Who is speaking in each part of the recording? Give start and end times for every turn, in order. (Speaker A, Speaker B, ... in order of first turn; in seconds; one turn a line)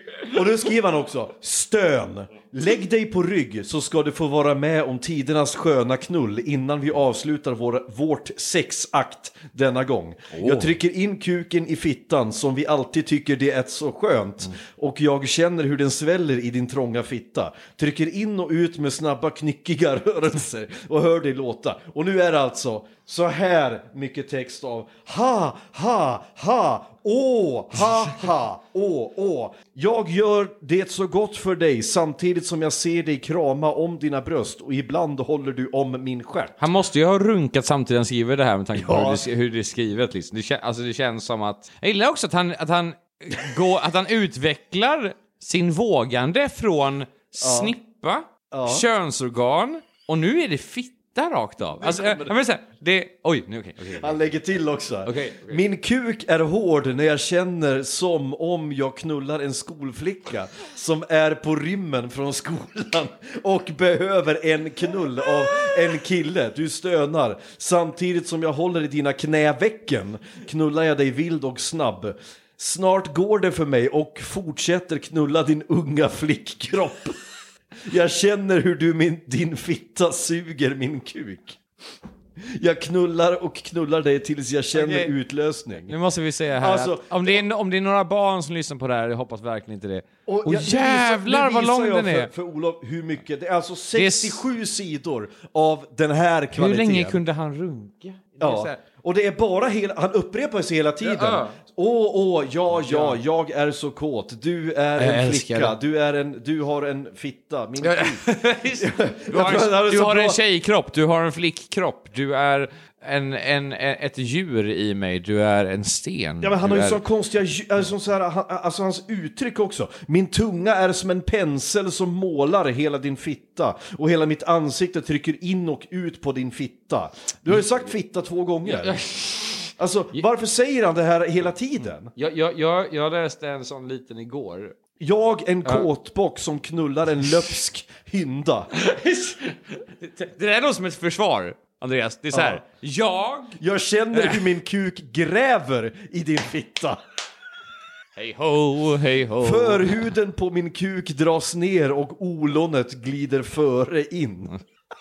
Speaker A: 0.3-36.6
Speaker B: 10.3-10.7
Speaker B: 36.6-54.2
Speaker A: 38.7-39.2
Speaker A: 47.4-47.7
Speaker A: 48.5-48.8
Speaker A: 51.8-52.4
Speaker A: 53.9-77.2
Speaker B: 55.0-55.6
Speaker A: 77.8-81.6
Speaker A: 82.4-85.9
Speaker B: 84.7-85.1
Speaker B: 85.9-92.3
Speaker A: 86.6-87.4
Speaker A: 90.3-97.2
Speaker B: 93.9-94.4
Speaker B: 96.5-98.8
Speaker A: 98.4-108.2
Speaker B: 101.0-101.6
Speaker B: 102.7-103.2
Speaker B: 105.0-105.7
Speaker B: 107.8-117.0
Speaker A: 108.8-110.4
Speaker A: 116.4-129.0
Speaker B: 128.6-130.2
Speaker A: 129.8-132.1
Speaker B: 132.1-134.8
Speaker A: 135.0-138.7
Speaker B: 138.7-143.6
Speaker A: 142.3-142.6
Speaker A: 143.6-147.0
Speaker B: 144.1-144.5
Speaker B: 148.2-150.0
Speaker A: 149.4-154.6